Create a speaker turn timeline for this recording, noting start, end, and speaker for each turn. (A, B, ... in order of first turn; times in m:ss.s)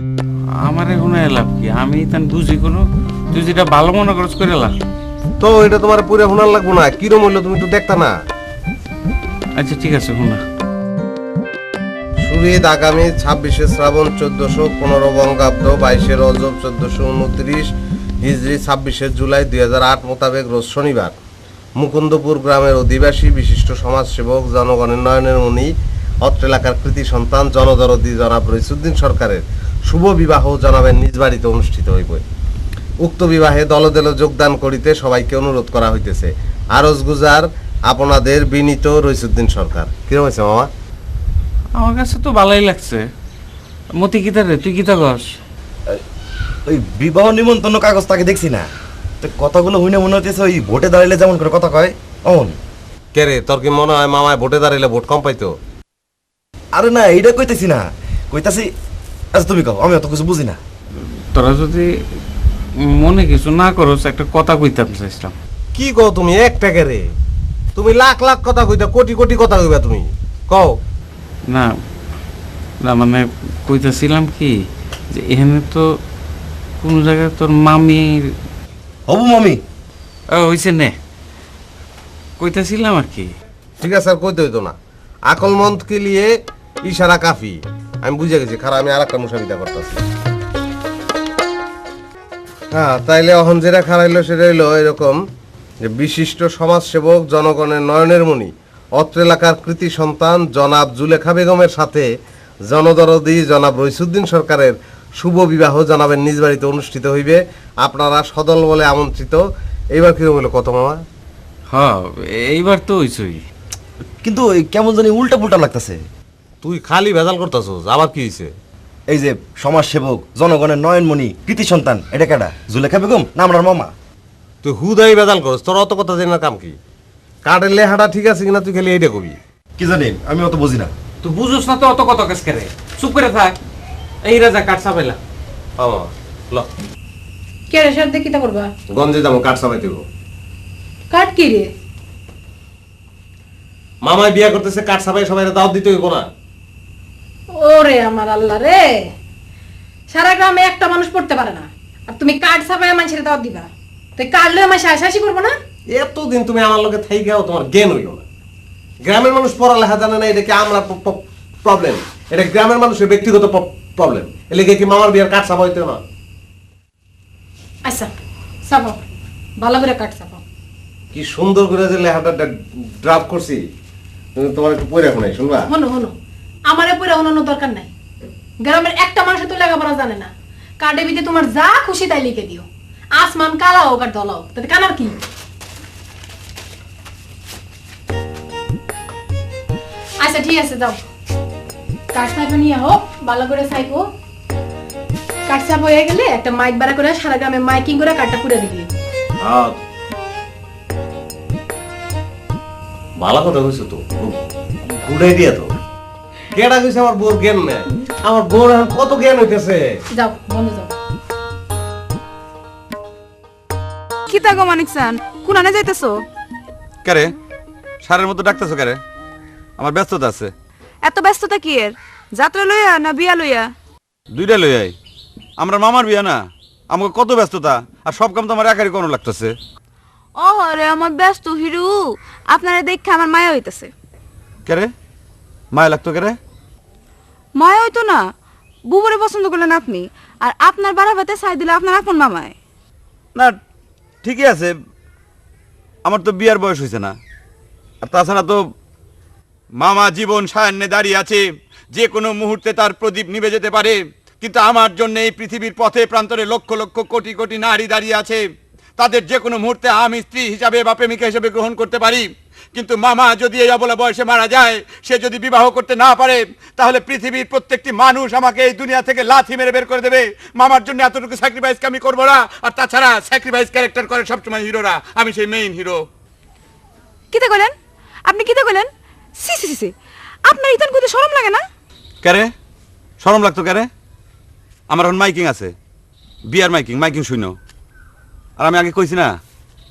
0:00.6-0:04.8 A
0:05.4-0:08.2 B
0:09.6-0:10.4 A
0:12.2-0:17.7 B
0:18.2-0:21.1 B
0:21.8-0:25.7 B
0:26.2-0:32.2 B
0:33.0-0:40.7 B
0:41.8-0:43.0 A
0:44.0-0:45.2 A
0:46.7-0:48.7 C
0:49.2-0:52.6 C
0:53.1-0:55.6 B
0:56.8-0:58.7 C
0:59.3-1:00.6 C
1:01.4-1:01.9 A
1:02.8-1:05.4 A
1:05.8-1:07.1 B
1:07.8-1:10.8 B
1:12.8-1:14.5 A
1:15.2-1:15.8 A
1:16.8-1:18.1 A
1:19.1-1:19.6 C
1:20.3-1:21.0 A
1:22.4-1:23.3 A
1:23.8-1:24.8 B
1:25.3-1:26.3 B
1:26.8-1:30.0 B
1:32.7-1:35.2 B
1:35.8-1:42.1 B
1:42.7-1:49.4 B
1:50.0-1:51.0 B
1:51.7-1:53.4 A
1:54.2-1:56.0 C
1:56.6-1:58.5 B
1:59.1-2:03.9 C
2:04.6-2:06.8 B
2:07.4-2:09.4 B
2:09.8-2:10.9 C
2:11.2-2:13.6 A
2:14.3-2:15.2 A
2:15.8-2:16.7 B
2:17.7-2:18.7 D
2:18.9-2:20.0 B
2:21.1-2:21.7 D
2:24.0-2:26.3 B
2:27.5-2:29.1 D
2:30.1-2:35.6 D
2:36.0-2:38.2 B
2:39.0-2:46.0 B
2:47.8-2:48.1 D
2:48.7-2:49.0 D
2:49.6-2:50.4 D
2:51.1-2:53.6 B
2:54.4-2:55.7 B
2:55.7-2:56.2 D
2:56.7-2:57.9 D
2:58.6-3:00.3 D
3:00.8-3:05.2 D
3:10.2-3:11.0 D
3:12.1-3:14.1 D
3:15.5-3:18.9 D
3:19.4-3:19.8 B
3:23.2-3:25.7 B
3:26.6-3:29.8 B
3:30.1-3:30.9 D
3:34.3-3:36.2 E
3:37.0-3:37.3 F
3:38.0-3:39.0 F
3:39.8-3:40.5 F
3:41.1-3:43.7 E
3:44.3-3:45.0 F
3:45.6-3:49.6 F
3:50.4-3:51.9 E
3:52.5-3:53.9 E
3:55.7-3:56.4 F
3:57.6-3:58.2 E
3:58.9-4:02.5 E
4:04.2-4:04.8 F
4:06.0-4:07.2 F
4:08.0-4:08.6 F
4:09.8-4:18.4 F
4:19.0-4:36.1 F
4:37.3-4:37.7 E
4:38.3-4:38.9 E
4:39.4-4:39.9 E
4:40.5-4:41.6 E
4:42.2-4:42.5 F
4:43.2-4:43.9 F
4:44.9-4:45.7 F
4:46.5-4:47.6 F
4:48.6-4:49.4 F